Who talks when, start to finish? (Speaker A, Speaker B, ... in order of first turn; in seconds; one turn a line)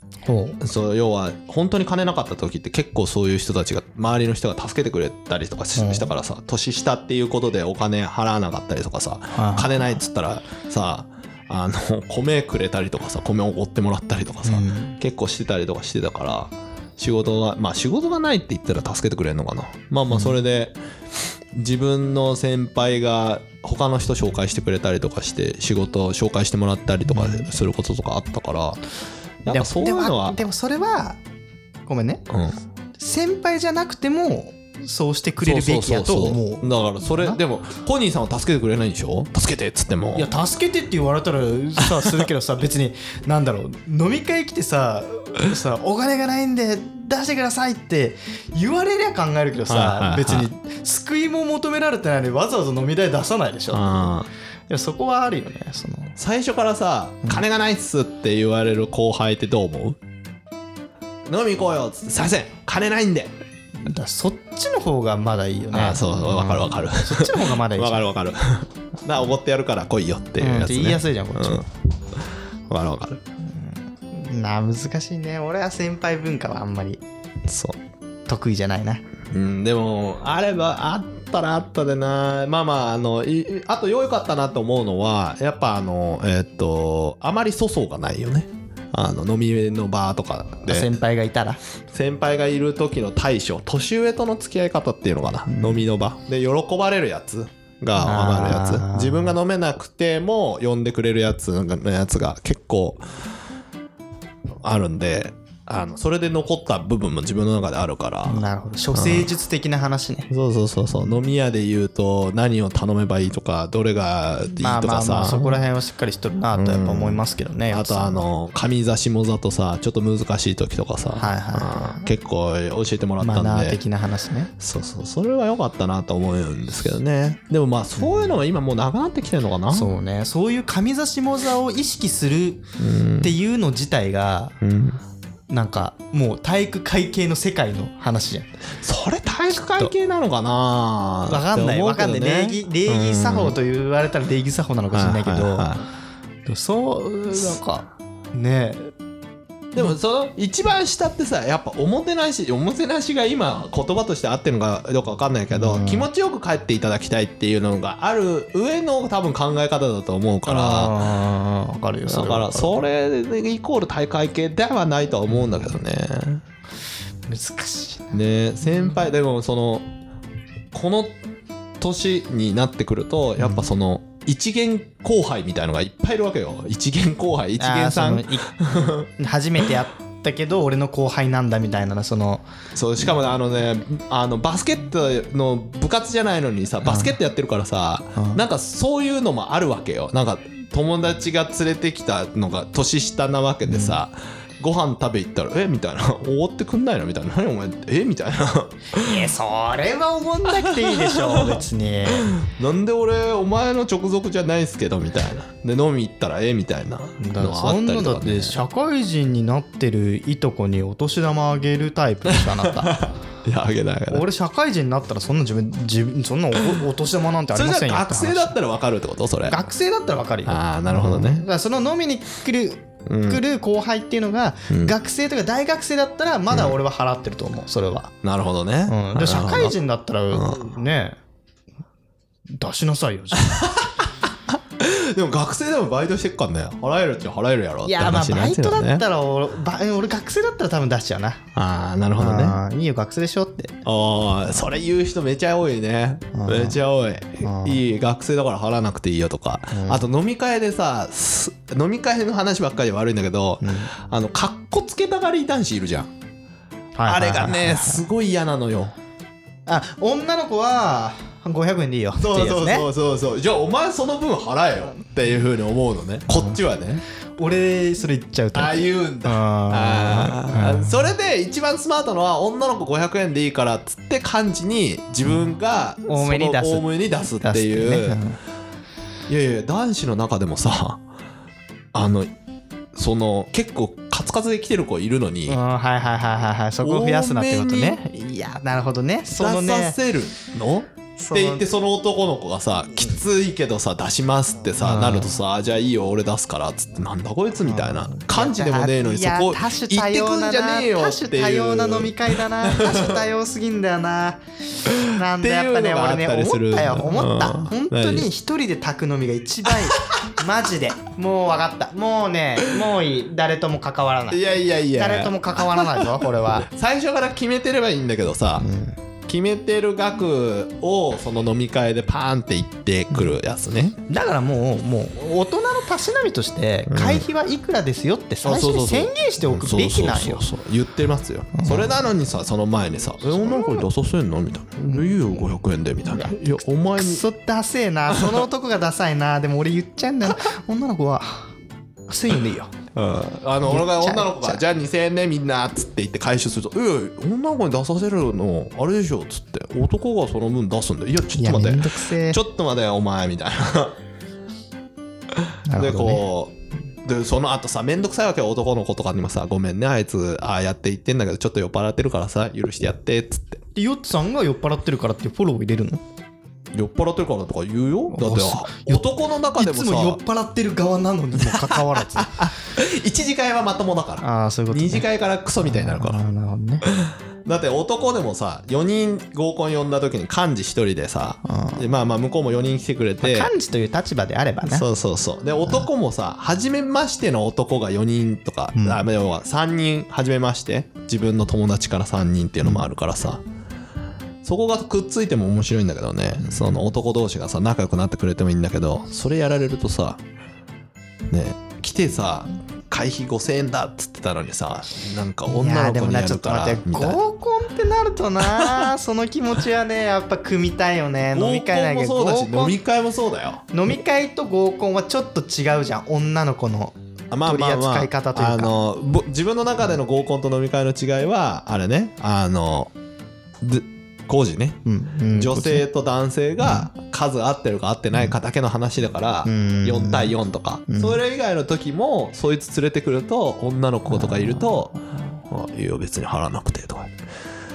Speaker A: 0.2-0.6
Speaker B: 0.6-20.8
Speaker A: 5.8-6.1
Speaker A: 9.3-9.8
Speaker A: 14.4-15.0
Speaker A: 20.1-20.4
Speaker B: 21.5-28.8
Speaker A: 27.1-27.5
Speaker B: 29.4-30.4
Speaker A: 29.5-31.2
Speaker A: 31.9-32.2
Speaker B: 32.3-32.6
Speaker A: 33.0-37.4
Speaker B: 35.4-40.3
Speaker A: 40.1-54.1
Speaker B: 41.8-42.3
Speaker B: 49.7-50.5
Speaker B: 53.7-54.3
Speaker A: 54.7-56.2
Speaker B: 56.2-60.0
Speaker B: 61.3-63.3
Speaker A: 63.8-68.1
Speaker B: 65.7-71.7
Speaker A: 70.4-71.7
Speaker B: 72.7-73.2
Speaker A: 73.4-77.0
Speaker B: 77.5-77.8
Speaker A: 78.3-79.0
Speaker B: 79.3-90.9
Speaker A: 90.7-91.6
Speaker B: 91.9-103.0
Speaker A: 95.5-95.8
Speaker A: 98.0-99.4
Speaker B: 104.6-109.3
Speaker A: 108.3-110.3
Speaker B: 110.3-115.7
Speaker A: 114.6-118.3
Speaker B: 116.5-123.8
Speaker A: 121.2-122.1
Speaker A: 123.2-124.5
Speaker B: 124.6-129.9
Speaker A: 129.7-132.7
Speaker B: 132.8-133.3
Speaker A: 133.2-134.6
Speaker B: 134.6-135.0
Speaker A: 135.5-138.5
Speaker B: 138.8-143.6
Speaker A: 139.7-139.9
Speaker A: 141.3-145.8
Speaker B: 144.9-145.9
Speaker A: 146.5-148.9
Speaker B: 149.8-161.0
Speaker A: 155.5-156.1
Speaker A: 160.5-162.8
Speaker B: 162.1-166.4
Speaker A: 167.3-168.2
Speaker B: 168.1-169.9
Speaker B: 170.7-171.2
Speaker B: 171.8-179.1
Speaker A: 173.4-173.7
Speaker A: 177.6-178.5
Speaker A: 179.2-182.5
Speaker B: 182.7-199.3
Speaker A: 186.8-187.1
Speaker A: 188.2-188.4
Speaker A: 193.7-194.0
Speaker A: 198.9-202.4
Speaker B: 200.7-208.6
Speaker A: 207.2-213.1
Speaker B: 212.3-214.3
Speaker A: 214.1-218.6
Speaker B: 217.5-219.6
Speaker A: 219.4-228.1
Speaker B: 220.5-221.4
Speaker B: 223.1-223.4
Speaker B: 226.5-226.8
Speaker B: 228.2-229.8
Speaker A: 228.9-231.2
Speaker B: 230.3-230.7
Speaker A: 232.5-233.8
Speaker B: 233.4-239.0
Speaker A: 237.8-241.5
Speaker B: 241.6-242.6
Speaker A: 242.2-243.8
Speaker B: 243.8-256.1
Speaker A: 246.3-246.8
Speaker A: 247.4-247.8
Speaker A: 249.7-250.1
Speaker A: 253.6-253.9
Speaker A: 257.0-258.1
Speaker B: 257.1-258.9
Speaker A: 259.7-262.9
Speaker B: 262.2-267.0
Speaker A: 267.4-271.1
Speaker B: 268.5-278.2
Speaker A: 276.1-278.4
Speaker B: 279.3-281.0
Speaker B: 281.9-282.3
Speaker B: 282.9-285.6
Speaker A: 285.5-290.0
Speaker B: 286.8-288.0
Speaker B: 289.3-303.2
Speaker A: 291.2-291.6
Speaker A: 294.8-295.4
Speaker A: 297.6-316.7
Speaker B: 304.9-308.3
Speaker B: 314.3-318.7
Speaker A: 318.6-319.0
Speaker B: 319.3-324.0
Speaker A: 324.1-330.5
Speaker B: 326.9-327.3
Speaker B: 328.4-337.2
Speaker A: 331.6-332.0
Speaker A: 333.2-333.9
Speaker A: 334.9-335.5
Speaker A: 336.1-341.5
Speaker B: 338.1-338.4
Speaker A: 342.1-342.7
Speaker B: 342.9-354.0
Speaker A: 343.6-344.6
Speaker A: 351.3-352.4
Speaker B: 355.4-356.5
Speaker A: 355.7-356.3
Speaker B: 357.0-363.6
Speaker A: 363.8-366.0
Speaker B: 366.7-370.2
Speaker A: 368.1-372.5
Speaker B: 371.4-376.2
Speaker A: 374.2-375.1
Speaker A: 375.6-376.9
Speaker B: 376.8-383.5
Speaker A: 381.4-381.9
Speaker A: 383.2-384.9
Speaker B: 384.6-393.4
Speaker A: 388.7-389.1
Speaker B: 394.4-400.2
Speaker A: 396.4-396.8
Speaker B: 401.3-407.2
Speaker A: 405.5-412.8
Speaker B: 408.4-408.9
Speaker B: 411.3-413.6
Speaker A: 413.7-418.8
Speaker B: 417.3-422.9
Speaker B: 423.6-437.2
Speaker A: 424.9-425.9
Speaker A: 429.4-430.4
Speaker A: 430.9-431.2
Speaker A: 434.2-434.7